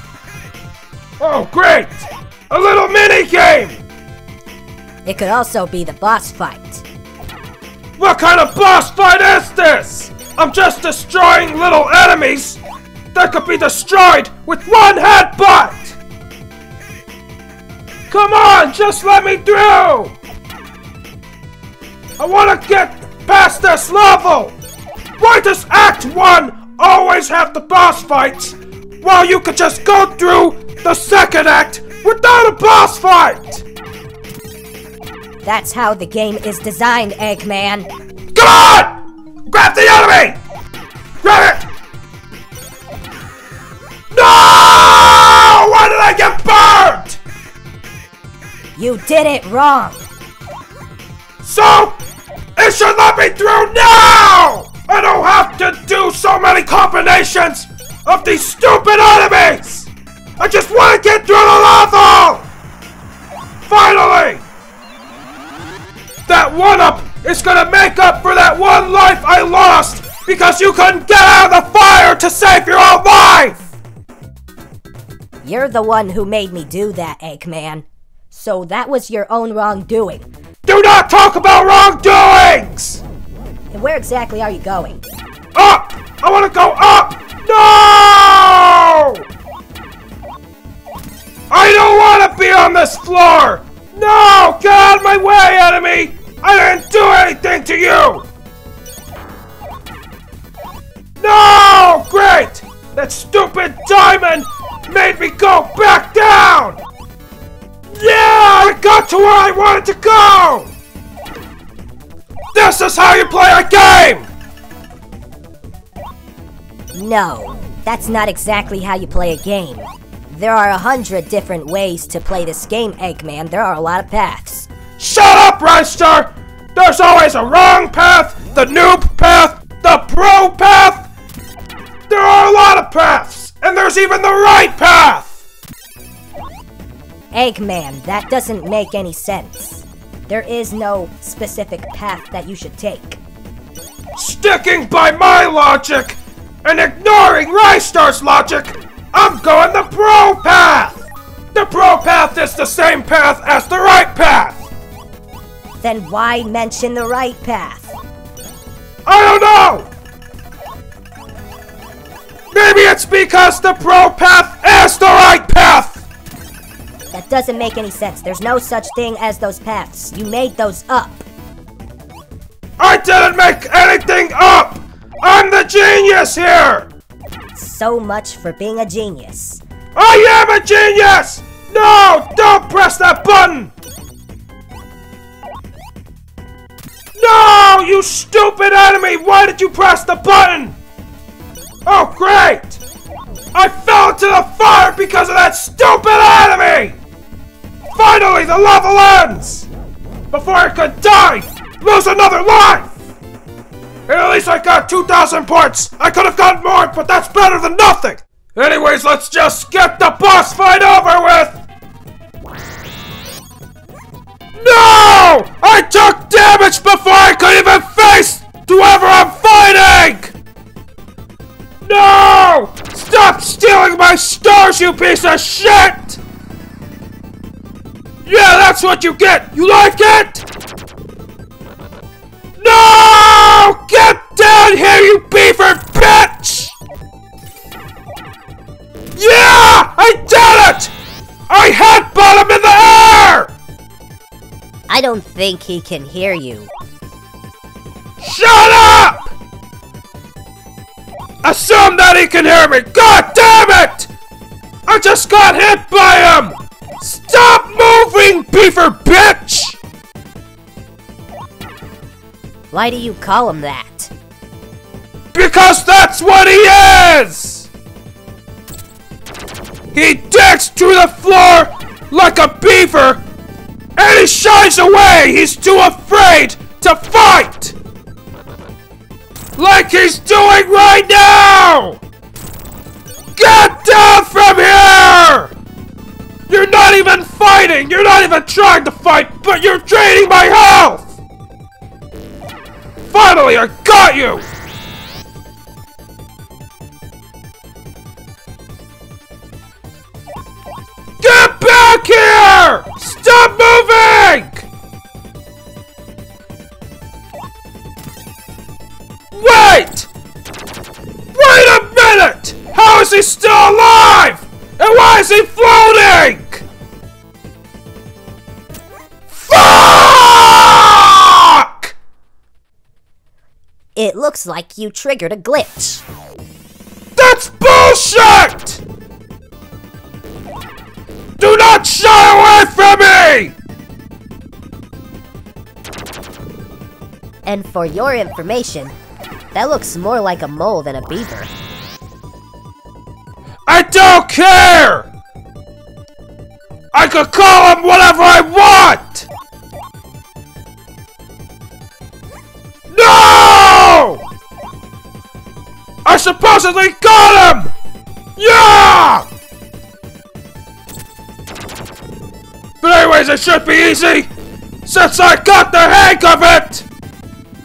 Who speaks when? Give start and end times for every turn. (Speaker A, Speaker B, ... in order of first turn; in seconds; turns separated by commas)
Speaker A: 1.2-3.8, Speaker B: 5.1-6.8, Speaker A: 8.0-12.6, Speaker A: 13.1-16.0, Speaker A: 18.1-20.1, Speaker A: 22.2-24.6, Speaker A: 25.2-33.6, Speaker B: 35.4-37.9, Speaker A: 38.3-39.0, Speaker A: 39.5-40.4, Speaker A: 41.2-41.6, Speaker A: 44.1-47.2, Speaker B: 48.8-50.0, Speaker A: 51.4-52.0, Speaker A: 52.6-62.5, Speaker A: 63.6-64.4, Speaker A: 66.3-73.7, Speaker B: 75.4-80.3, Speaker A: 80.7-83.0, Speaker B: 83.7-85.0, Speaker A: 85.5-89.2, Speaker A: 91.5-98.3, Speaker A: 101.2-106.8, Speaker A: 107.9-110.7, Speaker A: 112.5-114.3, Speaker B: 116.9-124.7, Speaker A: 125.0-131.1, Speaker A: 132.1-135.4, Speaker B: 137.3-143.2, Speaker A: 144.2-154.7, Speaker B: 155.8-158.0, Speaker A: 159.1-159.9, Speaker A: 162.5-166.0, Speaker B: 167.1-171.2, Speaker A: 172.8-176.9, Speaker B: 177.6-179.6, Speaker A: 179.9-183.7, Speaker A: 187.2-190.8, Speaker A: 191.9-192.8, Speaker A: 193.5-197.0, Speaker A: 197.9-199.7, Speaker A: 200.3-202.9, Speaker A: 204.1-211.6, Speaker A: 214.6-220.3, Speaker A: 221.8-226.2, Speaker A: 228.2-230.4, Speaker A: 232.6-236.8, Speaker A: 239.2-240.9, Speaker A: 241.5-243.5, Speaker B: 244.9-246.7, Speaker A: 248.2-249.3, Speaker A: 251.4-254.1, Speaker A: 254.9-259.8, Speaker B: 262.7-264.1, Speaker A: 265.3-267.7, Speaker A: 269.9-273.2, Speaker A: 274.0-277.8, Speaker A: 279.6-282.0, Speaker A: 283.4-285.5, Speaker A: 286.5-291.1, Speaker A: 293.1-294.5, Speaker A: 301.2-304.7, Speaker A: 309.3-310.1, Speaker A: 311.3-316.6, Speaker A: 319.3-321.9, Speaker B: 324.0-326.0, Speaker A: 327.2-328.8, Speaker A: 331.4-333.5, Speaker B: 337.4-338.9, Speaker B: 339.5-341.5, Speaker A: 343.7-345.1, Speaker A: 346.9-349.3, Speaker A: 352.9-354.2, Speaker A: 356.1-357.7, Speaker A: 358.4-359.3, Speaker A: 362.8-364.3, Speaker A: 364.9-366.9